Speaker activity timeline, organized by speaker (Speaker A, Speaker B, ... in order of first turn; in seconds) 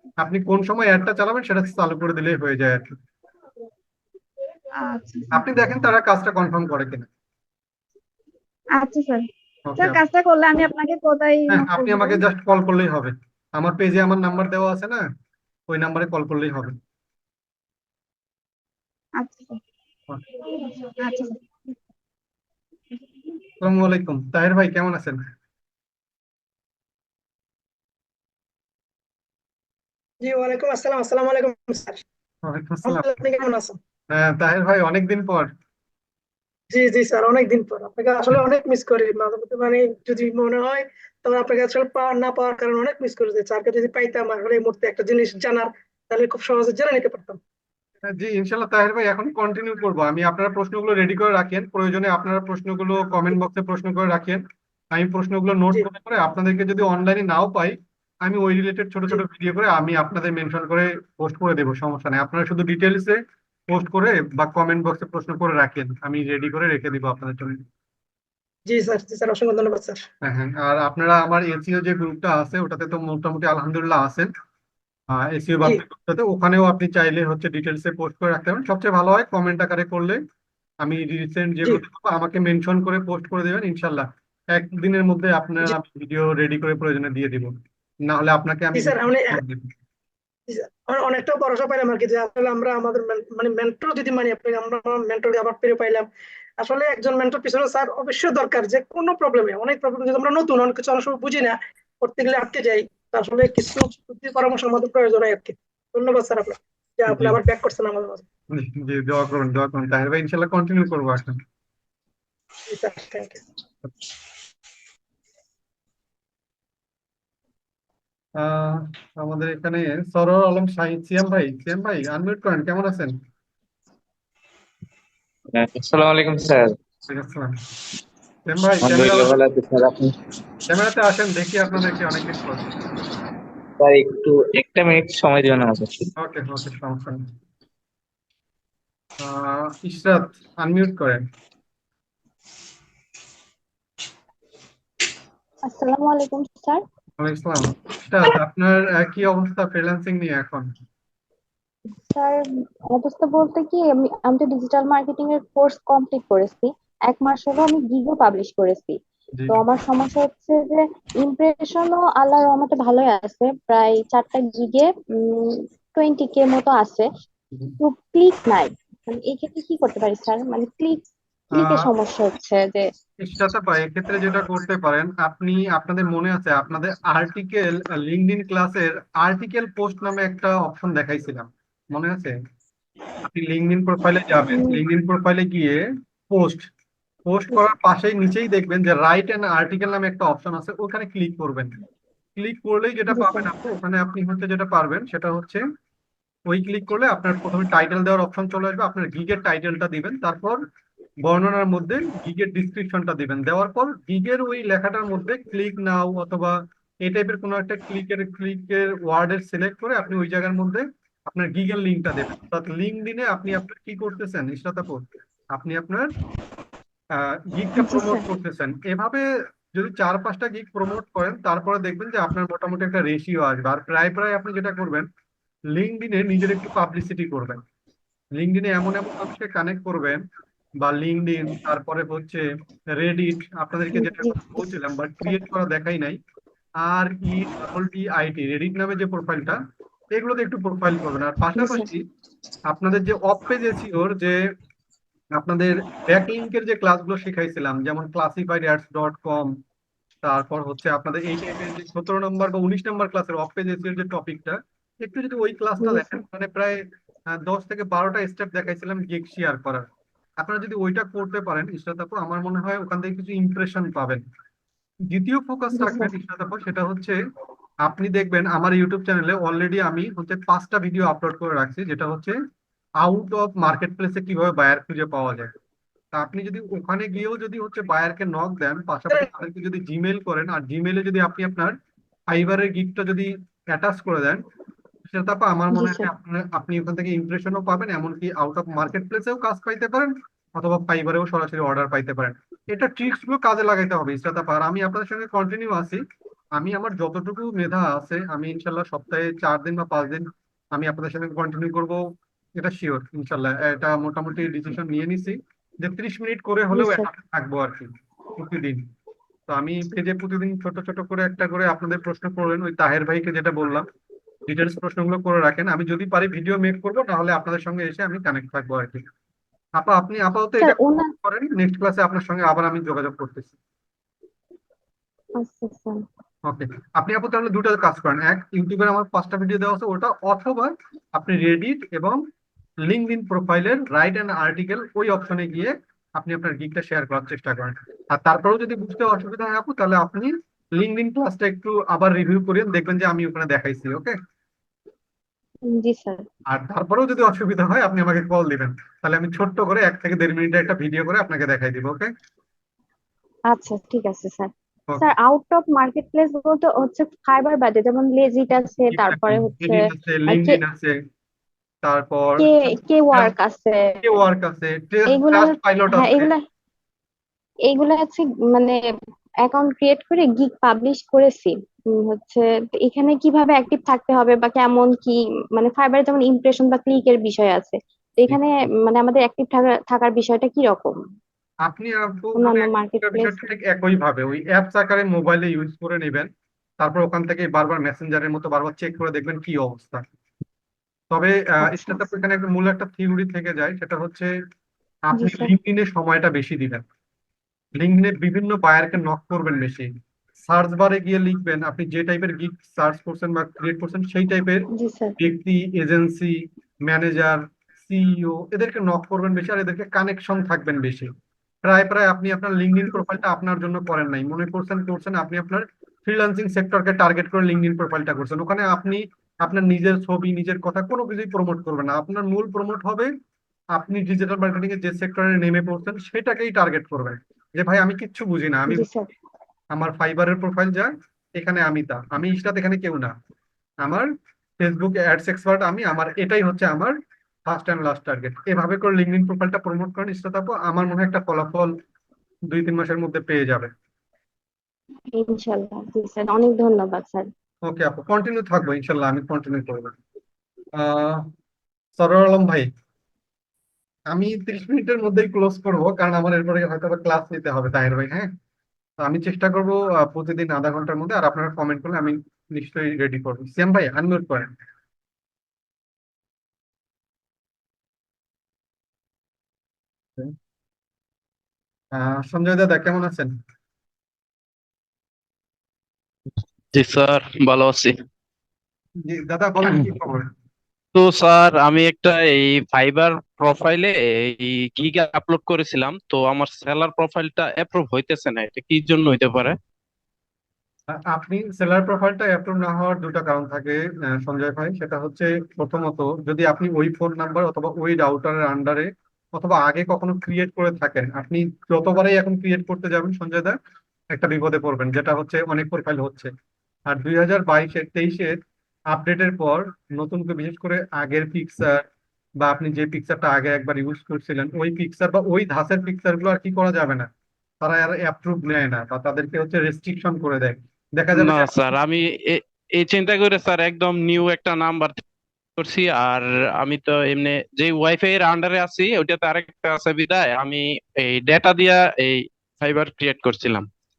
Speaker A: 0.2-3.0, 5.3-7.1, 9.7-10.0, 11.5-15.0, 15.7-16.8, 23.6-25.2, 32.4-33.1, 34.1-35.5, 48.1-67.6, 70.2-74.3, 75.1-80.2, 80.8-87.5, 88.0-89.7, 107.1-107.4, 108.5-111.4, 118.4-123.2, 127.1-127.6, 128.4-129.3, 130.7-132.7, 136.2-137.3, 139.2-141.2, 147.2-150.7, 159.3-159.6, 171.5-171.9, 173.2-182.3, 183.2-186.7, 187.3-191.7, 192.3-195.6, 196.5-200.6, 201.2-216.1, 217.1-225.1, 225.7-227.6, 228.4-230.2, 230.8-236.2, 236.8-239.6, 240.1-242.0, 242.7-244.4, 245.3-249.5, 250.2-259.9, 260.4-264.2, 265.1-267.1, 267.8-272.4, 273.0-275.5, 276.1-281.7, 282.3-284.4, 285.1-296.0, 296.6-302.0, 302.6-308.8, 309.5-313.9, 314.5-319.0, 319.8-323.6, 326.4-332.2, 332.8-344.2, 346.5-352.1, 358.9-361.0, 361.8-363.3, 364.0-366.3, 381.6-386.3, 386.8-390.0, 391.1-394.3, 395.1-396.8, 397.8-404.7, 405.2-411.1, 411.6-423.1, 423.7-428.8, 429.7-433.1, 433.8-436.9, 437.4-441.7, 442.5-443.7, 447.6-449.9, 450.8-451.3, 452.0-452.7, 454.1-458.3, 459.0-464.5, 471.9-473.3, 479.0-480.3, 490.9-503.6, 504.1-506.3, 506.9-508.4, 508.9-511.8, 512.4-517.1, 517.6-521.5
Speaker B: 4.8-5.5, 8.8-9.2, 9.8-12.2, 19.2-19.6, 20.8-21.4
Speaker C: 30.2-32.0, 32.8-33.8, 36.7-47.4, 68.7-70.0, 88.7-89.4, 90.5-108.2, 112.7-113.4
Speaker D: 125.5-126.7, 128.8-130.1, 133.8-136.1
Speaker E: 145.6-146.8, 151.9-159.0, 159.5-167.1, 167.8-172.9, 184.3-184.8, 193.1-193.5, 217.8-218.2, 233.9-235.4, 241.6-241.9, 255.8-256.2, 265.7-266.1, 285.7-286.1, 306.7-307.1, 320.6-321.1, 325.4-326.0, 345.6-346.2, 353.5-360.6, 362.4-364.1, 365.1-366.4, 367.7-368.8, 369.4-380.9, 382.4-383.4, 391.6-392.1, 395.1-395.5, 404.7-405.2, 428.7-429.1, 445.1-447.3
Speaker F: 476.7-478.0, 480.9-489.6, 521.1-525.0, 525.6-533.7